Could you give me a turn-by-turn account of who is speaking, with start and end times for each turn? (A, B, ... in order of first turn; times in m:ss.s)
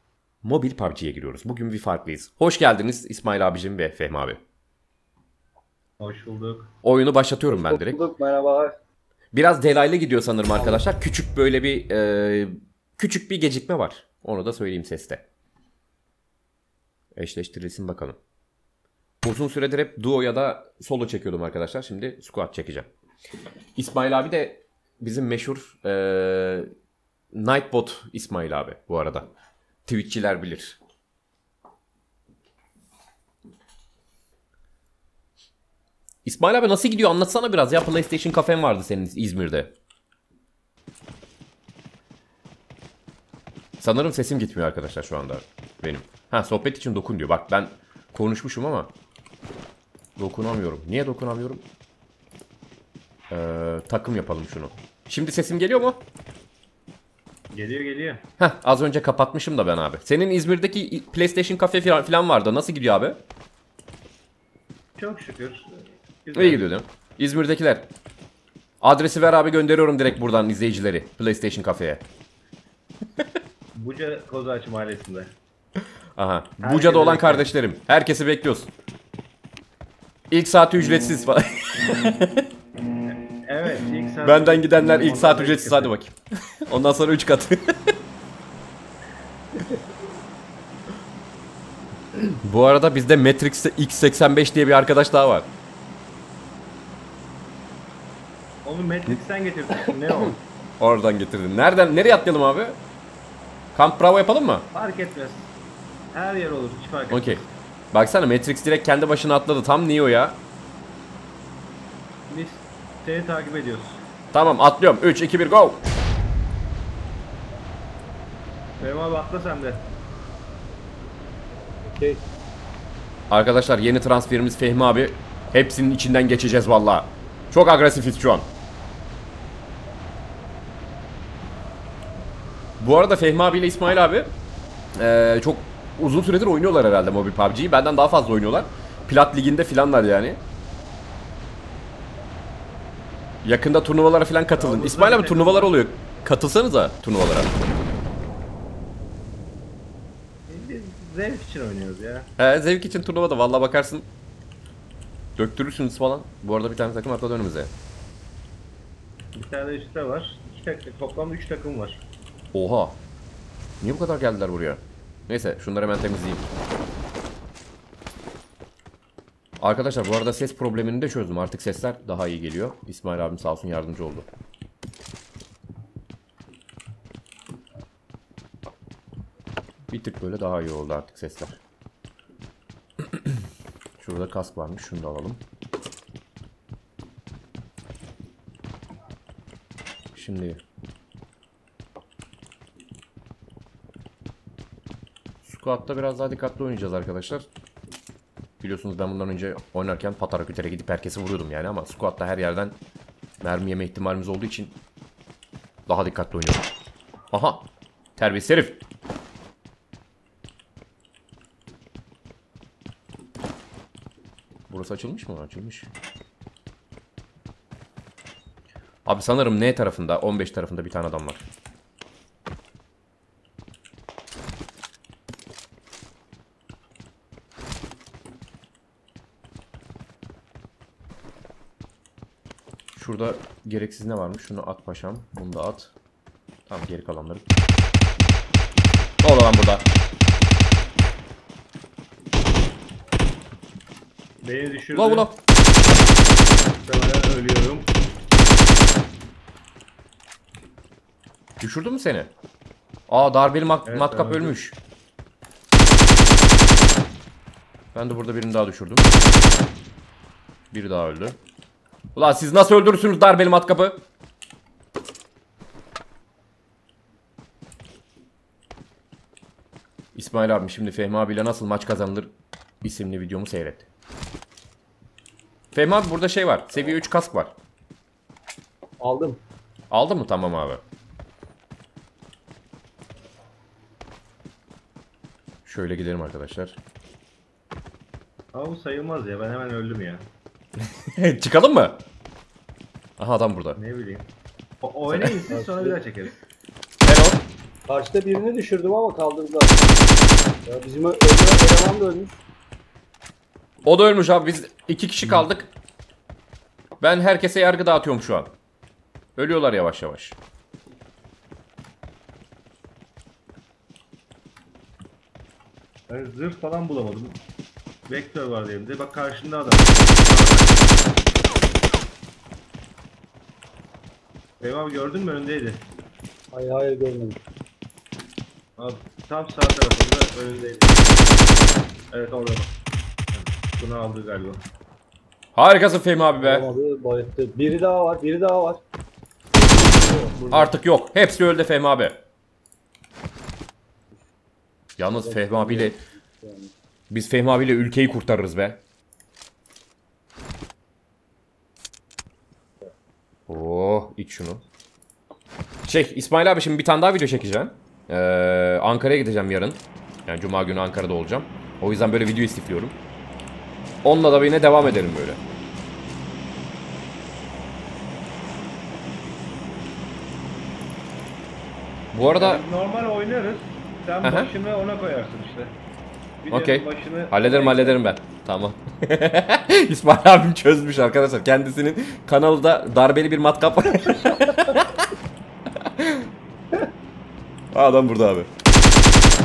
0:00.4-0:04.4 A
0:06.0-0:06.7 B
0:06.8-0:08.0 A
0:07.5-0:08.8 C
0:09.3-0:15.2 A
0:10.6-0:10.8 C
0:17.2-0:18.2 A
0:19.2-0:22.9 A
0:23.8-0:26.7 A
0:27.3-0:29.3 A
0:29.9-0:30.8 A
0:36.2-0:39.7 A
0:43.8-0:48.9 A
0:50.2-0:51.6 A
0:53.3-0:56.0 A
0:57.5-0:58.2 B
0:58.4-1:03.2 A
1:05.0-1:06.6 B
1:06.3-1:07.9 A
1:08.8-1:12.0 A
1:13.8-1:15.3 B
1:16.2-1:18.7 A
1:16.6-1:17.5 B
1:20.3-1:22.4 A
1:23.1-1:25.9 B
1:24.2-1:26.2 A
1:26.7-1:27.9 A
1:32.4-1:35.5 A
1:38.6-1:40.4 B
1:40.8-1:42.8 A
1:43.8-1:44.7 A
1:44.7-1:45.5 B
1:46.1-1:47.5 B
1:47.1-1:47.4 A
1:47.9-1:50.4 A
1:52.3-1:54.0 B
1:54.3-1:55.8 A
1:58.8-1:59.9 B
2:01.8-2:02.2 C
2:03.3-2:08.5 A
2:12.8-2:14.3 A
2:15.0-2:20.4 A
2:23.4-2:27.5 A
2:24.5-2:25.8 B
2:30.5-2:32.3 B
2:32.4-2:34.1 A
2:35.4-2:37.7 A
2:39.3-2:42.0 B
2:42.5-2:43.0 A
2:43.8-2:46.5 A
2:49.6-2:54.3 A
2:59.9-3:01.6 A
3:04.0-3:05.4 A
3:10.2-3:10.6 A
3:15.4-3:17.5 A
3:18.6-3:22.8 A
3:23.4-3:24.8 A
3:25.9-3:26.6 A
3:27.3-3:28.8 A
3:34.7-3:35.9 A
3:39.0-3:41.4 A
3:53.0-3:55.9 A
3:56.7-3:57.5 A
3:59.2-3:59.9 A
4:04.4-4:05.3 B
4:04.9-4:05.4 A
4:06.8-4:07.9 B
4:11.6-4:12.3 A
4:13.1-4:14.8 A
4:13.9-4:14.6 B
4:17.9-4:19.1 A
4:20.7-4:21.4 A
4:22.2-4:24.0 A
4:30.2-4:33.9 A
4:35.7-4:37.5 A
4:39.0-4:39.4 C
4:39.9-4:40.8 A
4:45.6-4:46.8 A
4:48.5-4:50.3 B
4:51.0-4:52.0 A
4:53.2-4:53.8 A
4:53.8-4:54.3 B
4:54.8-4:56.4 B
4:55.5-4:56.0 C
4:57.0-4:57.4 A
4:57.9-4:59.8 C
5:00.7-5:02.4 C
5:03.9-5:05.7 A
5:07.0-5:08.5 A
5:09.4-5:10.4 A
5:16.1-5:17.4 B
5:18.1-5:20.9 B
5:24.6-5:25.8 B
5:26.5-5:27.4 C
5:28.8-5:31.1 B
5:32.1-5:32.7 B
5:33.3-5:34.6 B
5:35.6-5:36.7 A
5:36.4-5:38.8 C
5:39.7-5:40.7 C
5:40.5-5:42.2 A
5:45.0-5:46.0 A
5:45.2-5:46.7 C
5:47.1-5:48.8 A
5:53.5-5:54.6 A
5:55.8-6:03.0 A
6:04.0-6:05.4 A
6:12.1-6:12.6 A
6:12.4-6:15.8 B
6:14.2-6:14.5 A
6:16.4-6:18.0 B
6:16.5-6:25.1 A
6:25.8-6:26.3 A
6:27.7-6:28.5 A